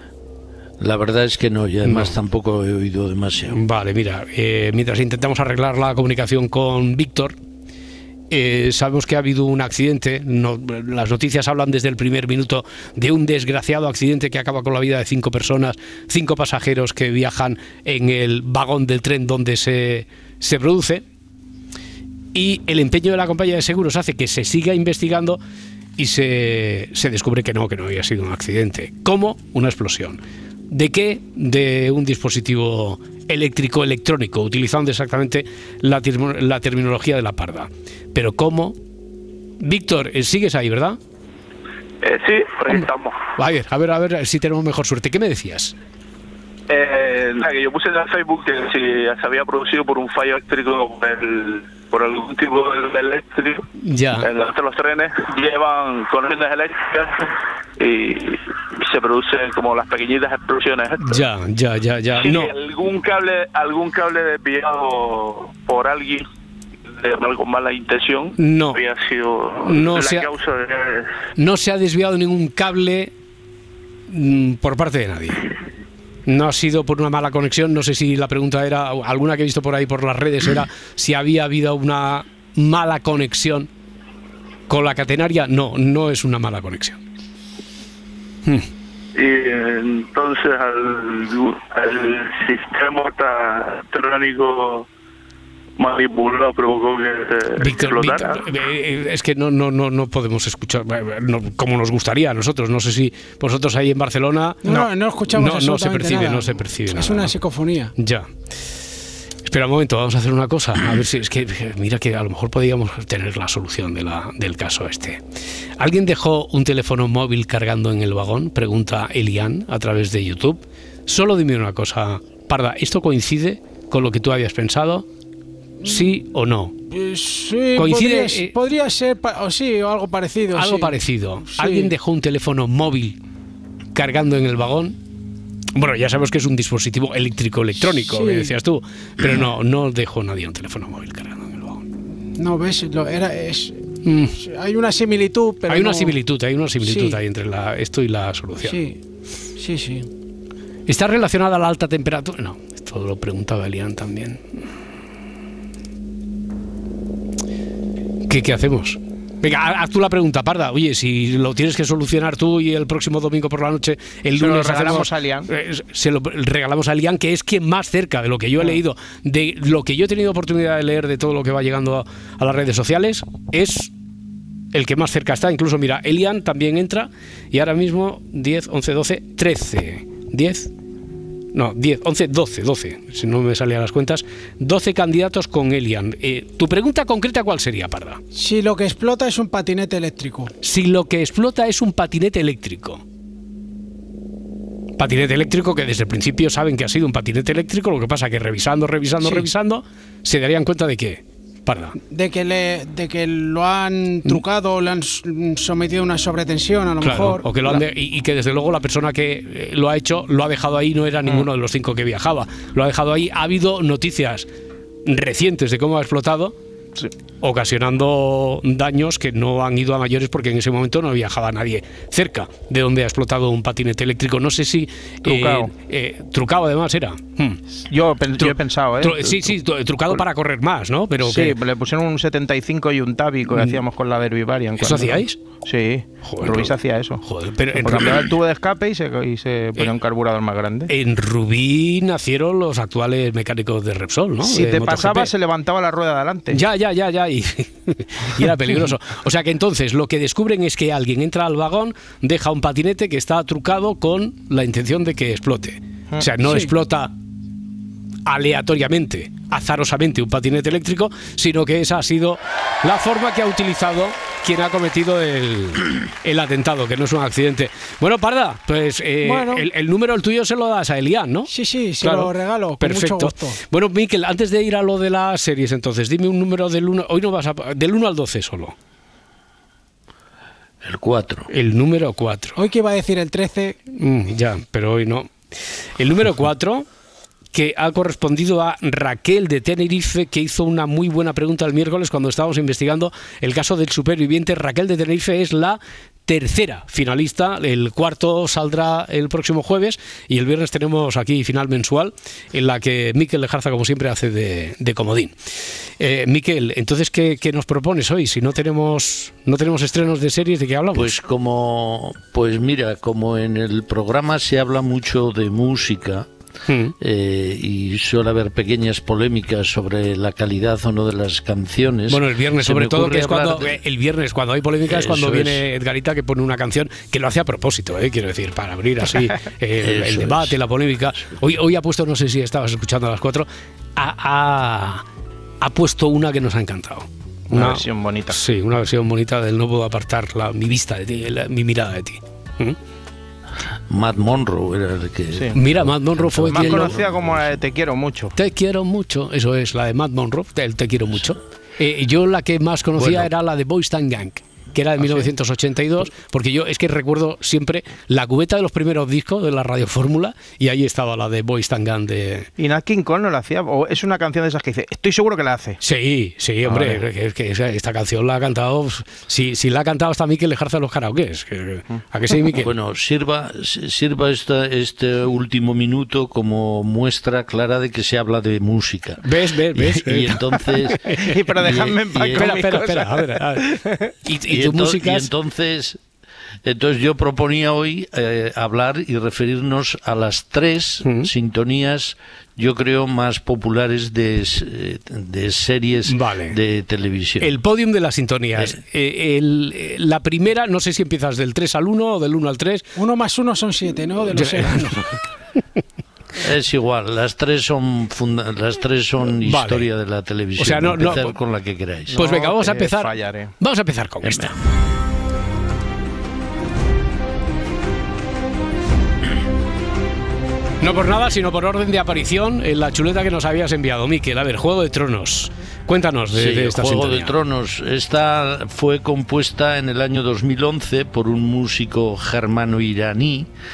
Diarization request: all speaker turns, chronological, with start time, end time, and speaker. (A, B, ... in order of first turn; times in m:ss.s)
0:00.8-0:03.6 A
0:01.8-0:02.2 B
0:03.5-0:07.4 B
0:08.3-0:21.0 B
0:22.3-0:25.4 B
0:26.0-0:38.8 B
0:39.6-0:41.0 B
0:42.0-0:43.2 C
0:43.4-0:45.7 B
0:46.7-0:53.6 C
0:53.8-0:54.3 B
0:54.2-1:01.2 C
1:01.0-1:02.5 B
1:02.2-1:06.2 C
1:06.9-1:11.1 C
1:08.4-1:08.8 B
1:09.6-1:10.3 B
1:11.4-1:13.1 B
1:14.1-1:15.5 B
1:16.3-1:23.7 B
1:24.7-1:27.0 B
1:29.2-1:34.8 C
1:35.8-1:38.5 C
1:37.6-1:47.3 B
1:44.6-1:47.9 D
1:48.0-1:48.3 B
1:49.4-1:55.2 B
1:55.8-2:05.0 B
2:05.8-2:06.1 D
2:05.8-2:06.8 B
2:06.9-2:10.9 D
2:07.8-2:08.5 B
2:10.5-2:13.2 B
2:11.5-2:11.9 D
2:13.9-2:15.0 B
2:15.7-2:21.8 B
2:17.9-2:18.5 D
2:22.4-2:26.2 D
2:24.0-2:24.3 B
2:25.7-2:28.8 B
2:26.8-2:27.2 D
2:28.6-2:29.0 D
2:29.6-2:30.1 D
2:30.9-2:34.4 B
2:38.3-2:53.9 B
2:44.3-2:45.5 E
2:54.7-3:00.7 B
3:01.5-3:08.2 B
3:08.3-3:10.5 D
3:10.6-3:13.0 B
3:15.0-3:22.0 B
3:19.2-3:19.5 D
3:22.1-3:27.5 D
3:27.0-3:34.5 B
3:35.0-3:36.5 B
3:37.4-3:47.6 B
3:45.2-3:45.7 E
3:47.9-3:49.5 E
3:48.4-3:51.6 B
3:51.2-3:57.2 E
3:53.5-3:53.8 B
3:54.8-3:55.4 B
3:56.2-3:58.3 B
3:57.7-4:00.9 E
4:00.9-4:05.3 B
4:04.4-4:06.6 E
4:06.5-4:17.1 B
4:18.2-4:38.7 B
4:29.2-4:29.6 D
4:31.5-4:33.6 D
4:40.8-4:41.5 A
4:41.5-4:42.6 B
4:42.6-4:43.8 D
4:43.9-4:46.9 B
4:47.5-5:05.3 B
5:06.0-5:11.1 B
5:10.9-5:16.3 A
5:16.7-5:16.9 B
5:17.0-5:23.8 A
5:22.1-5:35.0 B
5:24.9-5:25.6 A
5:29.8-5:30.6 A
5:35.6-5:42.8 B
5:37.5-5:38.4 E
5:43.9-5:47.2 A
5:45.5-5:47.0 B
5:46.5-5:48.3 E
5:48.4-6:02.5 B
5:53.0-5:53.3 A
6:02.6-6:05.8 E
6:05.8-6:12.7 B
6:12.6-6:19.2 A
6:19.2-6:25.3 B
6:19.7-6:21.0 A
6:21.2-6:24.0 E
6:22.1-6:22.4 A
6:24.5-6:26.0 A
6:26.6-6:37.5 A
6:31.0-6:31.3 B
6:36.1-6:36.6 B
6:37.4-6:42.9 B
6:43.0-6:44.9 D
6:44.3-6:45.2 B
6:46.4-6:52.3 A
6:49.4-6:49.9 B
6:50.6-6:51.4 B
6:52.1-6:53.5 E
6:52.1-6:54.6 B
6:54.3-6:54.5 A
7:00.8-7:07.3 B
7:06.3-7:13.5 A